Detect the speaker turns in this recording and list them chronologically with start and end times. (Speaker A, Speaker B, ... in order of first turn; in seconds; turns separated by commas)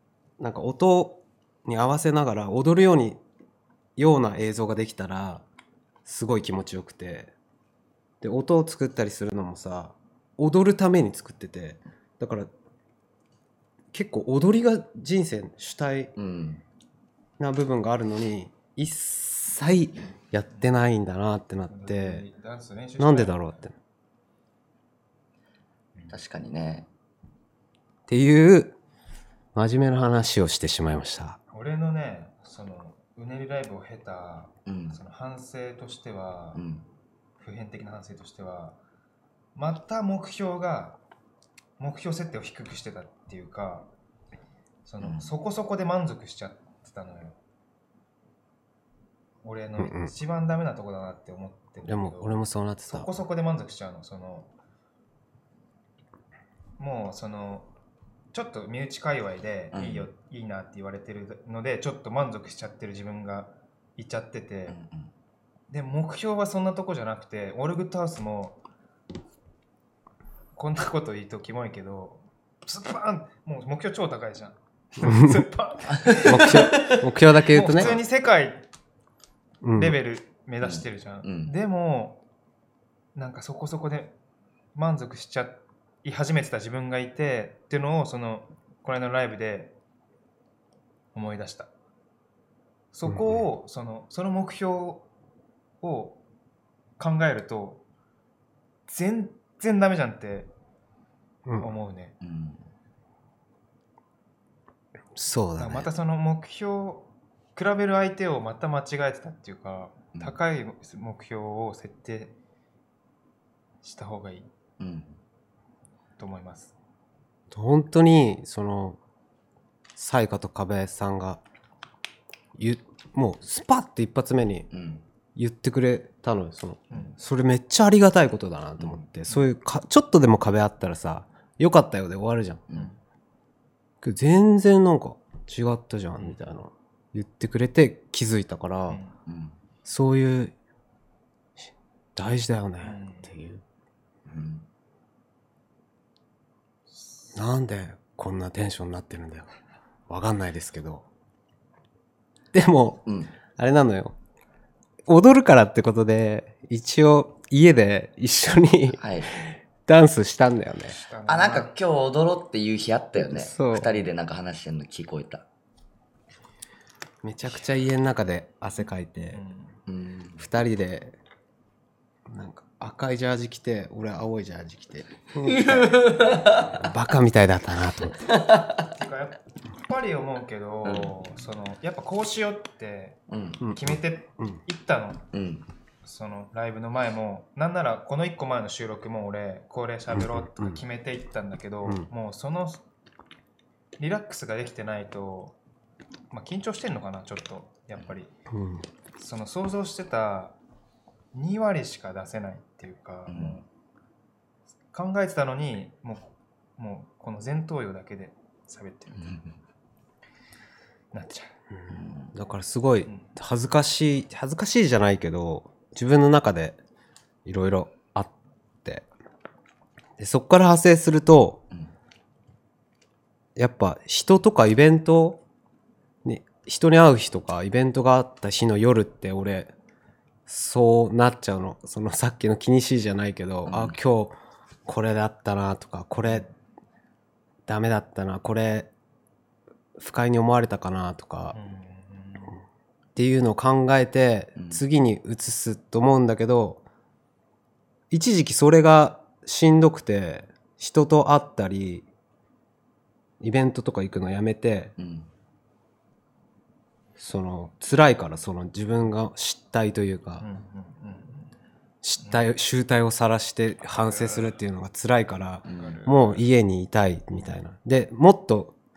Speaker A: 0.4-3.2, Speaker A: 4.0-5.4, Speaker A: 6.0-7.3, Speaker A: 8.2-12.5, Speaker A: 13.9-16.1, Speaker B: 16.2-16.6, Speaker A: 17.4-22.2, Speaker C: 21.7-23.6, Speaker A: 23.0-23.8, Speaker B: 26.1-26.9, Speaker A: 28.1-28.8, Speaker A: 29.6-31.4, Speaker C: 31.5-36.6, Speaker B: 34.7-35.0, Speaker B: 36.6-36.8, Speaker C: 37.4-38.8, Speaker C: 39.6-41.0, Speaker C: 41.8-43.9, Speaker C: 44.9-47.4, Speaker B: 45.0-45.3, Speaker C: 49.4-52.3, Speaker A: 49.8-50.1, Speaker A: 51.9-53.1, Speaker C: 52.9-54.5, Speaker C: 56.8-57.7, Speaker C: 58.3-64.8, Speaker B: 59.7-60.1, Speaker B: 64.7-65.1, Speaker C: 65.7-68.6, Speaker C: 70.6-77.0, Speaker A: 75.0-75.5, Speaker B: 75.9-77.0, Speaker A: 76.2-78.0, Speaker C: 77.5-78.6, Speaker A: 79.6-80.0, Speaker C: 79.8-82.2, Speaker B: 80.6-81.5, Speaker C: 83.2-84.2, Speaker C: 84.8-89.7, Speaker C: 91.2-91.7, Speaker C: 92.9-95.0, Speaker A: 93.1-93.4, Speaker C: 95.8-96.2, Speaker C: 97.0-97.8, Speaker C: 98.9-100.5, Speaker C: 101.6-102.2, Speaker B: 102.2-102.6, Speaker A: 105.2-105.9, Speaker C: 105.6-112.3, Speaker C: 113.8-114.5, Speaker B: 114.8-115.1, Speaker C: 116.2-116.7, Speaker A: 117.5-119.0, Speaker A: 120.0-121.4, Speaker A: 122.6-124.7, Speaker B: 124.7-125.0, Speaker A: 125.4-132.6, Speaker C: 126.9-127.2, Speaker A: 134.0-139.0, Speaker C: 138.9-139.2, Speaker B: 139.3-139.5, Speaker A: 139.8-140.5, Speaker A: 142.2-143.6, Speaker C: 142.8-143.3, Speaker B: 144.3-144.7, Speaker C: 147.0-147.3, Speaker A: 147.3-149.5, Speaker A: 150.1-151.1, Speaker A: 152.5-153.0, Speaker B: 153.1-153.3, Speaker A: 153.6-154.2, Speaker A: 155.1-161.0, Speaker B: 159.0-159.3, Speaker C: 160.9-161.7, Speaker B: 161.3-165.4, Speaker A: 163.2-163.9, Speaker A: 167.2-169.4, Speaker C: 169.3-169.8, Speaker B: 169.9-170.4, Speaker A: 170.4-171.2, Speaker A: 172.3-178.3, Speaker B: 175.4-176.8, Speaker B: 178.3-178.8, Speaker C: 178.9-183.2, Speaker B: 180.8-181.1, Speaker B: 183.3-183.6, Speaker A: 183.6-184.6, Speaker C: 183.7-185.2, Speaker B: 185.3-185.6, Speaker C: 186.0-192.8, Speaker A: 190.1-190.8, Speaker C: 194.0-195.6, Speaker C: 196.3-198.3, Speaker A: 198.5-198.8, Speaker C: 199.2-200.6, Speaker C: 201.3-203.7, Speaker B: 203.3-203.6, Speaker C: 204.9-209.4, Speaker C: 211.1-211.5, Speaker A: 211.8-216.8, Speaker B: 211.9-212.3, Speaker A: 217.4-219.1, Speaker A: 220.2-221.6, Speaker A: 223.6-225.4, Speaker A: 226.2-229.7, Speaker A: 230.5-236.5, Speaker B: 233.7-234.0, Speaker A: 237.7-238.9, Speaker A: 240.0-241.6, Speaker C: 241.5-242.5, Speaker A: 243.2-246.8, Speaker B: 244.6-244.8, Speaker A: 248.1-252.1, Speaker A: 253.4-254.9, Speaker B: 255.0-255.3, Speaker A: 257.2-260.5, Speaker C: 260.4-261.5, Speaker A: 262.0-268.8, Speaker C: 262.2-262.5, Speaker C: 263.9-264.6, Speaker B: 265.7-265.9, Speaker C: 265.7-266.5